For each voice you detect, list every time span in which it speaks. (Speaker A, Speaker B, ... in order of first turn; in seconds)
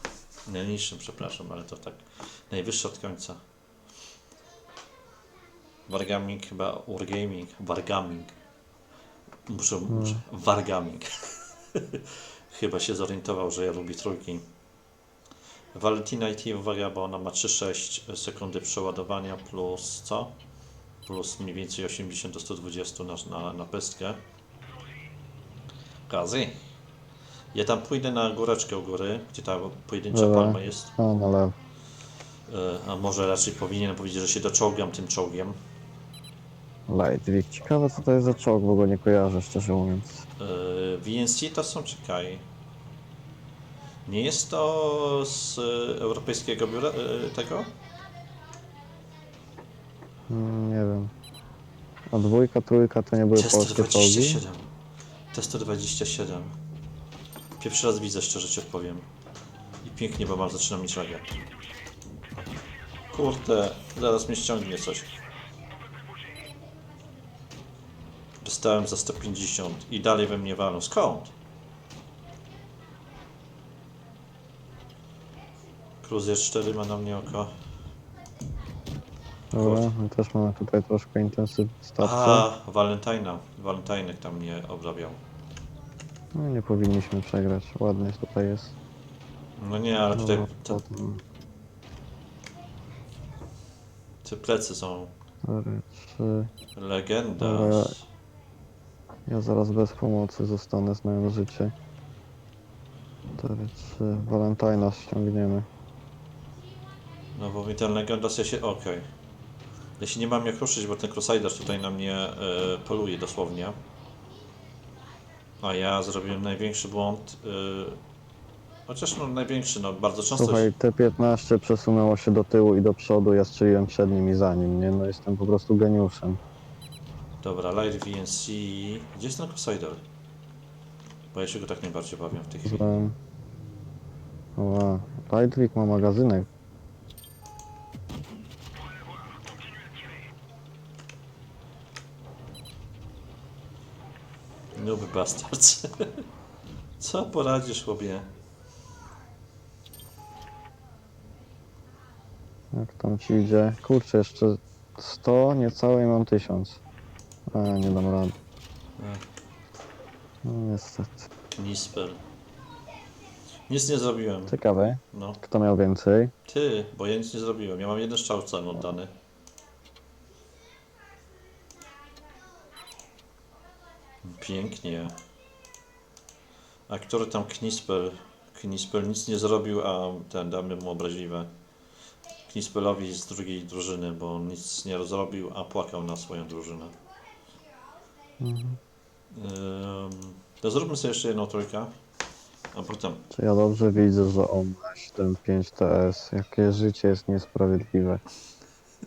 Speaker A: 0.5-3.4, 5.9-8.4, 9.4-14.5, 15.7-20.4, 21.0-24.2, 26.1-26.6, 27.5-30.9, 32.5-35.6, 40.4-42.5, 44.0-47.7, 53.3-54.7, 55.3-56.5, 57.6-59.1, 59.8-61.4, 63.1-65.1, 68.4-71.3, 76.0-77.5, 79.5-79.9, 82.0-85.2, 89.6-90.8, 94.2-95.1, 96.7-98.1, 107.3-109.1, 110.0-113.8, 115.6-118.0, 118.9-120.7, 127.4-130.0, 131.3-133.0, 144.7-146.2, 147.0-148.3, 159.0-159.3, 161.6-162.2, 163.7-164.6, 165.1-165.4, 166.4-169.1, 174.2-175.2, 176.9-181.5, 182.4-186.9, 189.3-191.9, 192.7-193.2
Speaker B: 9.9-10.2, 30.1-31.6, 36.9-40.2, 50.3-51.1, 52.1-54.4, 79.5-82.5, 86.3-88.7, 90.1-91.2, 95.4-96.5, 97.4-98.0, 99.3-101.7, 103.3-105.7, 120.3-126.4, 132.6-133.2, 134.6-136.5, 152.7-156.8, 157.5-158.3, 160.4-161.3, 164.5-166.3, 188.4-188.8, 193.3-198.2